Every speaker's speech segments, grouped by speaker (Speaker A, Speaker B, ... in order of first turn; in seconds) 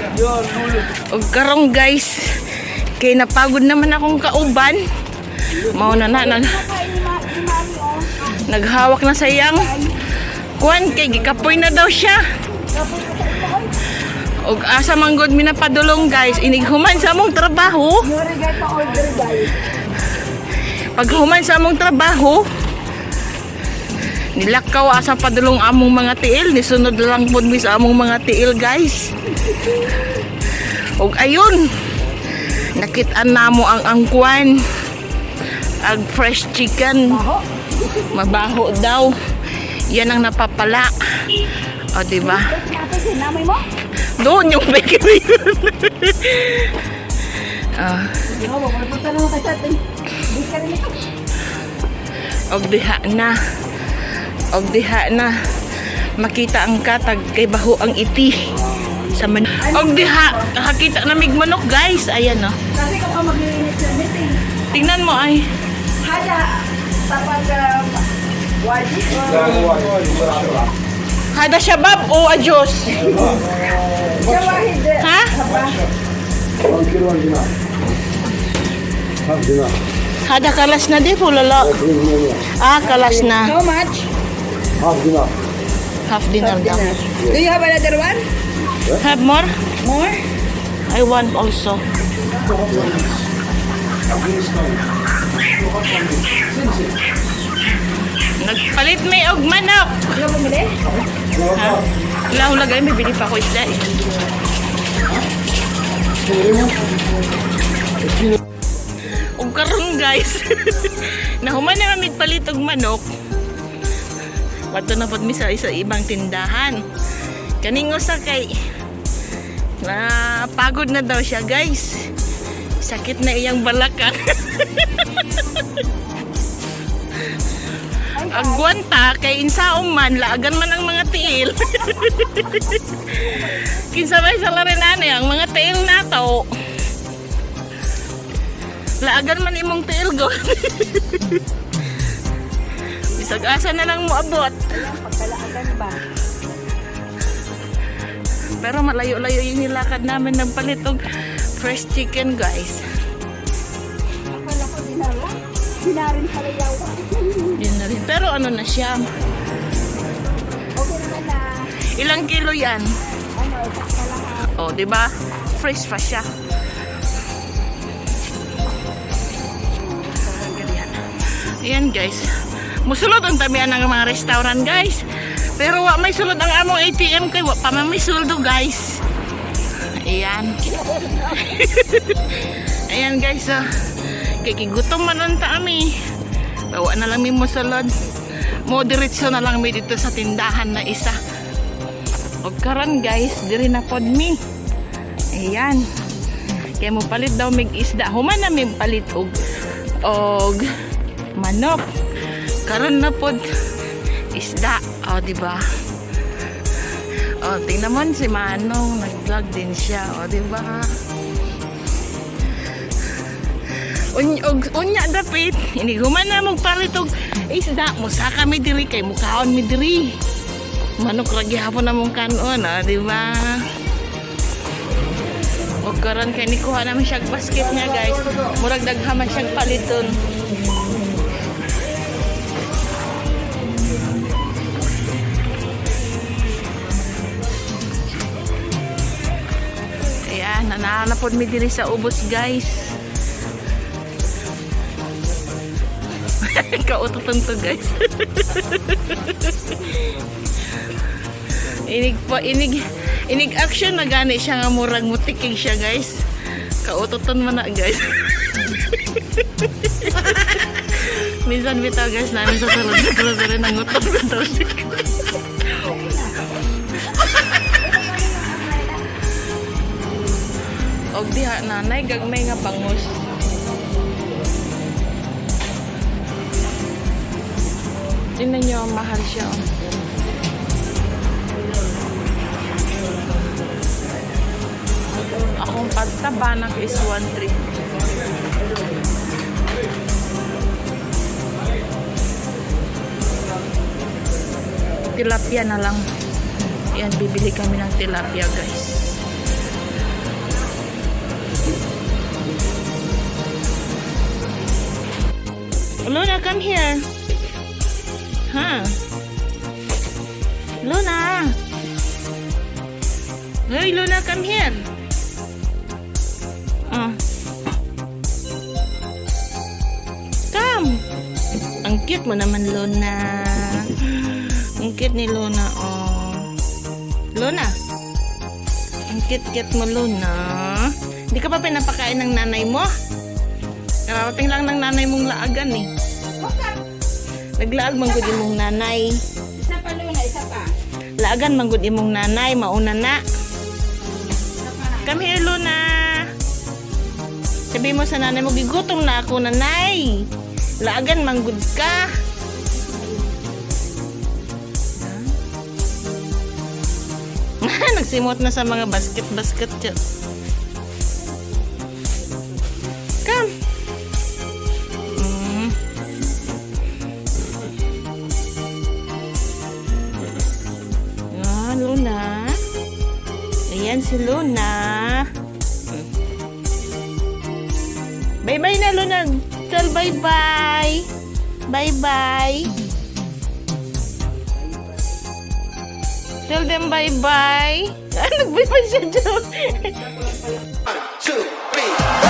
Speaker A: 0.6-4.8, 5.5-6.6, 8.3-9.9, 10.6-12.2, 14.4-18.1, 20.9-22.4, 24.3-29.1, 30.5-31.7, 32.4-34.6, 35.8-37.2, 37.9-42.5, 44.2-48.2, 52.5-62.5, 64.7-65.4, 71.3-73.3, 75.0-75.3, 80.2-83.5, 86.1-86.9, 88.9-89.5, 90.9-91.8, 98.4-100.2, 101.3-104.0, 109.1-113.0, 114.7-116.8, 117.6-118.5, 119.8-122.1, 122.8-125.6, 128.3-136.5, 139.0-141.4, 143.1-144.6, 148.5-151.0, 151.6-152.8, 157.5-159.0, 161.9-162.9, 164.4-166.3, 171.6-172.3, 172.8-175.0, 175.6-179.0, 180.0-180.5, 181.3-185.9, 186.7-187.9, 188.7-191.2, 192.4-194.4, 195.3-195.8, 196.5-199.3, 200.0-200.7, 201.3-201.8, 202.7-203.4, 204.3-205.6, 206.9-210.9, 213.7-220.1, 221.0-223.6, 225.8-230.1, 240.2-243.0, 246.4-250.0, 251.5-256.2, 256.8-265.2, 271.1-273.2, 278.4-279.7, 285.6-287.7, 295.1-296.0, 296.9-299.2, 306.1-307.1, 308.5-309.0, 310.8-311.5, 313.7-314.8, 316.9-317.2, 320.5-321.0, 321.8-326.5, 327.3-327.7, 329.1-332.9, 334.1-335.9, 337.6-339.2, 341.2-343.2, 345.0-346.3, 347.7-350.2, 350.8-352.1, 355.0-355.3, 357.6-360.0, 363.2-363.5, 365.1-365.7, 371.3-372.6, 373.7-375.3, 378.4-381.1, 381.7-382.7, 386.5-390.1
Speaker B: 5.6-8.3, 9.5-10.0, 12.7-13.7, 18.0-19.7, 37.1-37.9, 42.2-43.6, 48.2-51.0, 59.6-60.5, 62.7-64.4, 66.0-68.1, 68.6-69.5, 73.1-73.4, 74.2-75.8, 82.8-84.1, 86.4-88.2, 89.8-90.2, 100.1-100.8, 128.1-128.7, 133.2-133.6, 144.7-146.0, 154.3-157.7, 160.7-161.7, 163.3-164.5, 169.8-171.0, 180.7-181.4, 265.7-266.6, 267.6-269.0, 336.4-336.8, 339.6-340.7, 344.4-345.1
Speaker C: 69.2-70.7, 73.1-73.4, 74.0-74.4, 76.6-77.5, 79.2-79.8, 81.8-82.4, 84.8-85.3, 92.5-93.2, 94.1-94.8, 95.5-96.9, 101.2-101.5, 106.3-106.7